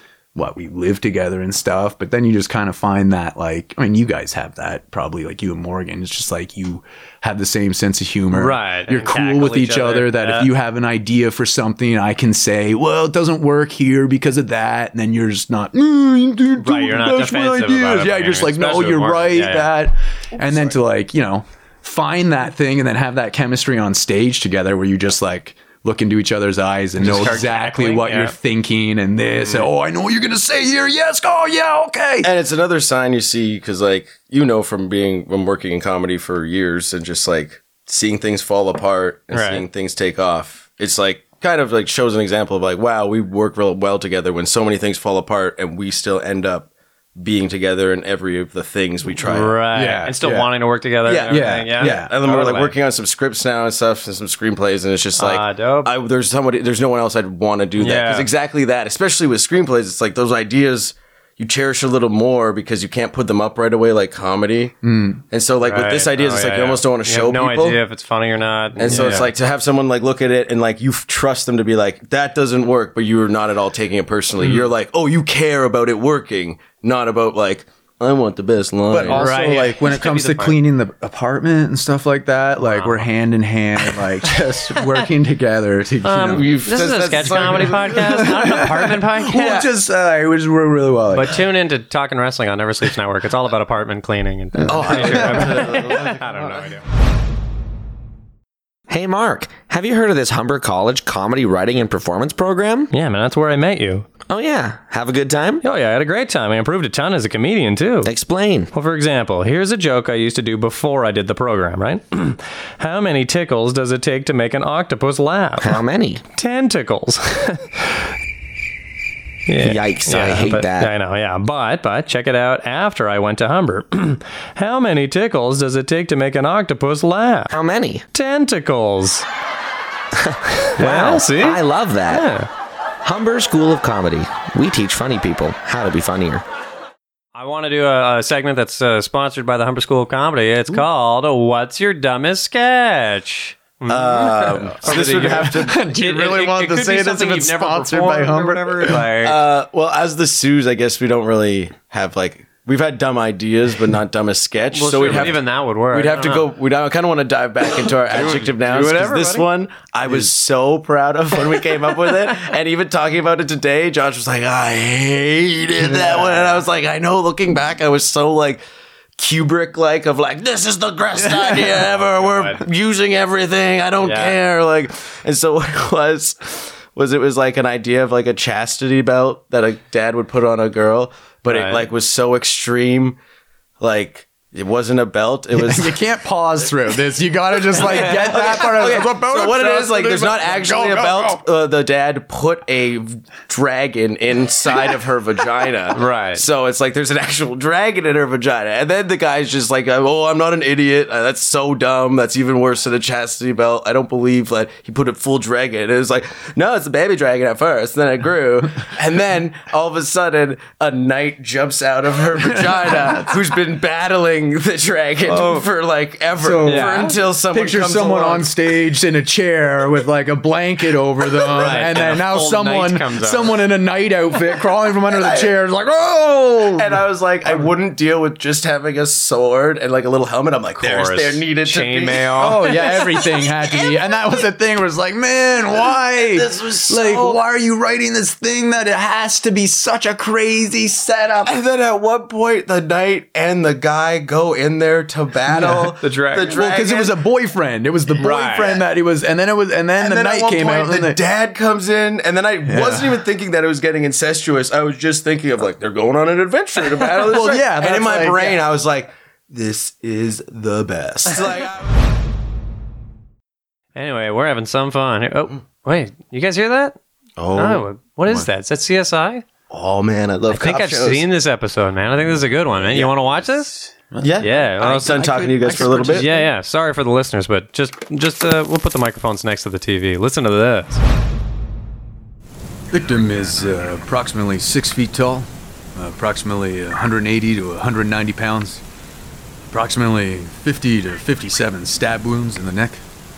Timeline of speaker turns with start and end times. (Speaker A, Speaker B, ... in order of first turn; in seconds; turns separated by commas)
Speaker A: 0.3-32.3, Speaker B: 8.3-10.5, Speaker B: 16.6-19.8, Speaker B: 27.0-28.4, Speaker B: 29.4-29.7, Speaker C: 32.2-49.6, Speaker B: 39.3-39.6, Speaker B: 49.2-52.8, Speaker A: 49.7-50.5, Speaker C: 51.0-64.8, Speaker A: 51.3-52.1, Speaker B: 55.2-55.9, Speaker B: 57.8-58.3, Speaker A: 64.8-65.2, Speaker C: 65.3-67.8, Speaker B: 65.6-69.3, Speaker C: 68.8-79.3, Speaker A: 68.9-69.2, Speaker A: 78.9-86.5, Speaker B: 79.0-80.6, Speaker B: 82.6-83.1, Speaker B: 86.0-89.7, Speaker C: 86.3-88.3, Speaker A: 87.9-91.4, Speaker B: 91.1-96.8, Speaker A: 94.6-95.8, Speaker C: 94.7-96.7, Speaker D: 98.9-102.9, Speaker B: 102.9-104.1, Speaker D: 104.3-105.6, Speaker B: 105.6-108.1, Speaker D: 108.0-108.7, Speaker B: 108.7-115.8, Speaker D: 115.6-116.2, Speaker B: 116.4-118.0, Speaker B: 119.5-127.5, Speaker D: 119.6-120.9, Speaker D: 127.5-128.0, Speaker B: 128.1-129.3, Speaker D: 130.2-132.3, Speaker B: 130.8-132.5, Speaker D: 133.0-136.4, Speaker B: 137.3-149.4, Speaker C: 143.9-145.8, Speaker A: 144.8-149.0, Speaker C: 149.2-168.6, Speaker B: 154.7-156.5, Speaker B: 158.1-159.5, Speaker C: 169.2-183.2, Speaker B: 172.0-172.7, Speaker B: 174.0-174.4, Speaker B: 181.5-181.9, Speaker C: 183.8-186.0, Speaker A: 185.6-191.4, Speaker C: 187.7-218.5, Speaker B: 187.9-188.3, Speaker B: 195.9-196.4, Speaker A: 212.7-213.3, Speaker B: 215.3-215.7, Speaker A: 216.4-227.7, Speaker B: 216.6-217.2, Speaker C: 221.4-222.1, Speaker B: 221.5-223.6, Speaker C: 225.1-225.5, Speaker C: 226.8-233.8, Speaker B: 230.8-233.1, Speaker A: 232.4-241.6, Speaker C: 235.8-237.4, Speaker C: 241.4-247.2, Speaker A: 245.5-245.9, Speaker B: 245.6-246.6, Speaker A: 246.5-251.2, Speaker B: 248.2-248.8, Speaker C: 250.0-262.0, Speaker A: 252.7-253.2, Speaker A: 257.2-258.6, Speaker B: 263.9-267.0, Speaker C: 267.4-267.9, Speaker B: 267.6-269.5, Speaker C: 269.7-271.3, Speaker B: 270.5-273.7, Speaker C: 272.9-273.2, Speaker A: 274.1-274.5, Speaker C: 274.2-276.3, Speaker B: 274.4-281.0, Speaker A: 275.1-276.5, Speaker A: 282.9-288.8, Speaker A: 289.7-293.0